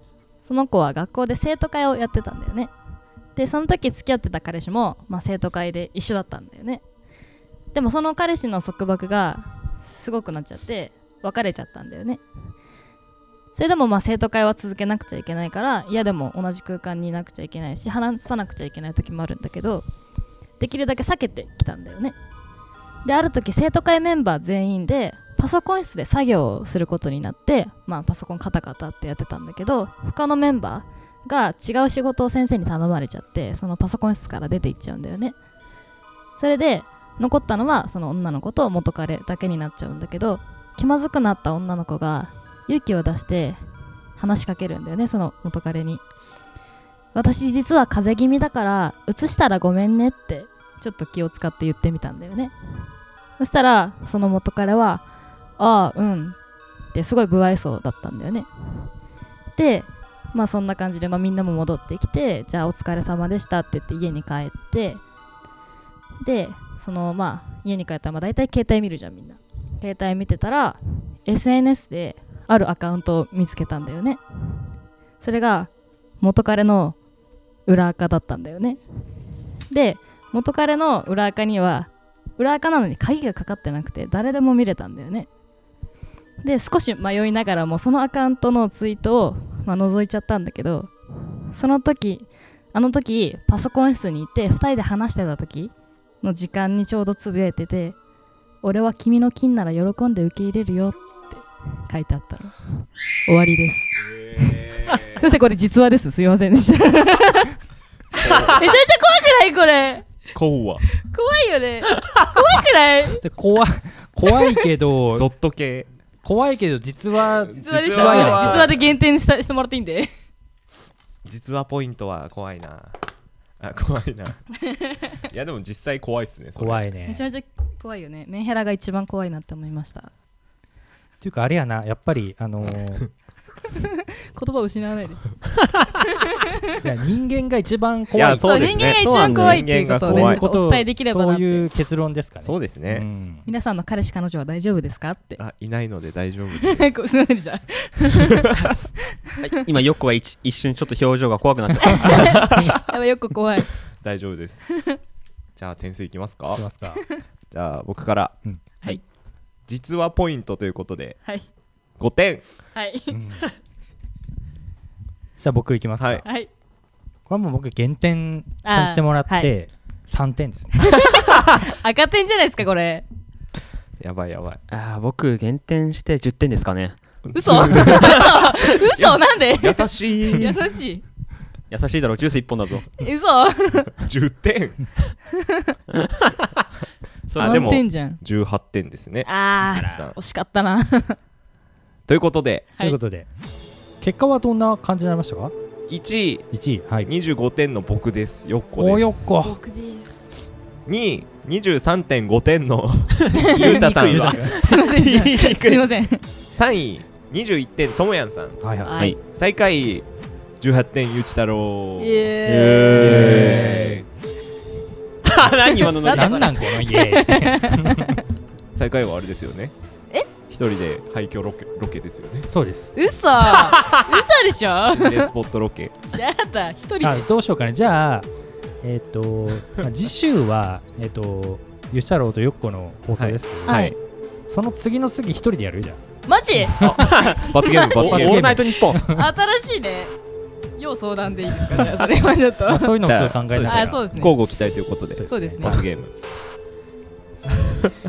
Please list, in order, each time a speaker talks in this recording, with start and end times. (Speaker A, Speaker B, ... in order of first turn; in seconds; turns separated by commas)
Speaker A: 0.4-2.7, Speaker A: 3.4-6.8, Speaker A: 7.7-12.2, Speaker A: 13.5-19.9, Speaker A: 20.6-22.1, Speaker A: 23.0-35.4, Speaker A: 36.4-43.6, Speaker A: 44.2-46.0, Speaker A: 47.1-52.5, Speaker A: 53.4-55.0, Speaker A: 55.6-56.4, Speaker A: 56.9-58.9, Speaker A: 59.5-65.0, Speaker A: 66.2-74.2, Speaker A: 75.2-77.0, Speaker A: 77.7-78.8, Speaker A: 79.7-85.3, Speaker A: 86.4-90.9, Speaker A: 91.5-98.0, Speaker A: 98.6-104.5, Speaker B: 104.0-105.2, Speaker A: 105.1-107.6, Speaker B: 108.2-108.6, Speaker A: 108.2-110.1, Speaker B: 110.3-110.8, Speaker A: 111.0-113.2, Speaker C: 113.2-115.3, Speaker B: 115.1-115.9, Speaker C: 116.2-118.7, Speaker B: 117.3-118.8, Speaker A: 117.5-120.1, Speaker B: 121.2-123.0, Speaker B: 123.6-124.5, Speaker B: 125.2-126.8, Speaker C: 126.5-127.2, Speaker A: 127.0-130.1, Speaker C: 131.2-133.0, Speaker A: 133.8-135.4, Speaker C: 136.8-138.8, Speaker B: 138.1-140.4, Speaker A: 138.3-141.7, Speaker D: 138.9-139.8, Speaker C: 140.0-143.4, Speaker B: 142.4-143.1, Speaker A: 143.4-145.4, Speaker B: 145.4-146.9, Speaker A: 146.6-148.8, Speaker D: 149.4-152.4, Speaker A: 151.9-153.8, Speaker B: 152.1-152.8, Speaker B: 154.0-154.6, Speaker B: 155.6-156.6, Speaker C: 156.5-157.0, Speaker B: 157.5-158.3, Speaker B: 159.7-161.2, Speaker B: 162.0-162.4, Speaker A: 162.7-163.2, Speaker C: 163.1-163.4, Speaker C: 165.4-166.2, Speaker A: 166.2-166.5, Speaker C: 167.3-170.8, Speaker A: 168.6-169.5, Speaker A: 170.8-173.0, Speaker B: 174.0-174.6, Speaker D: 174.7-177.0, Speaker B: 177.2-180.7, Speaker A: 177.3-181.0, Speaker D: 177.8-178.2, Speaker D: 181.7-182.9, Speaker A: 182.9-183.9, Speaker B: 184.0-184.9, Speaker D: 185.9-186.5, Speaker D: 187.3-187.8, Speaker B: 187.3-190.2, Speaker A: 187.4-188.2, Speaker A: 189.2-191.2, Speaker B: 192.1-192.7, Speaker C: 192.8-193.3, Speaker C: 194.0-195.5, Speaker B: 195.9-196.5, Speaker C: 196.5-197.1, Speaker B: 197.0-199.3, Speaker C: 198.8-199.6, Speaker A: 199.3-200.3, Speaker B: 200.8-205.9, Speaker A: 203.3-206.2, Speaker C: 203.5-204.6, Speaker B: 206.5-208.6, Speaker C: 208.6-209.0, Speaker A: 208.8-209.2, Speaker B: 209.2-210.1, Speaker B: 210.6-212.4, Speaker A: 212.0-213.3, Speaker D: 212.4-213.8, Speaker B: 212.9-214.0, Speaker C: 213.0-214.0, Speaker D: 215.2-216.6, Speaker A: 215.7-218.2, Speaker C: 216.1-218.2, Speaker B: 218.7-219.7, Speaker B: 220.5-222.5, Speaker C: 222.5-222.9, Speaker A: 222.9-225.3, Speaker B: 223.6-223.9, Speaker B: 224.9-225.9, Speaker A: 226.1-227.2, Speaker C: 227.0-228.3, Speaker C: 228.8-233.9, Speaker B: 233.2-233.9, Speaker A: 233.7-233.9, Speaker C: 234.5-236.0, Speaker A: 236.3-238.2, Speaker C: 236.6-237.0, Speaker B: 236.8-238.7, Speaker D: 237.8-239.1, Speaker C: 238.1-239.2, Speaker A: 238.9-240.1, Speaker A: 240.7-243.0, Speaker B: 241.7-242.1, Speaker C: 242.7-244.0, Speaker B: 243.0-246.1, Speaker A: 243.7-244.4, Speaker C: 245.1-245.8, Speaker A: 245.3-245.8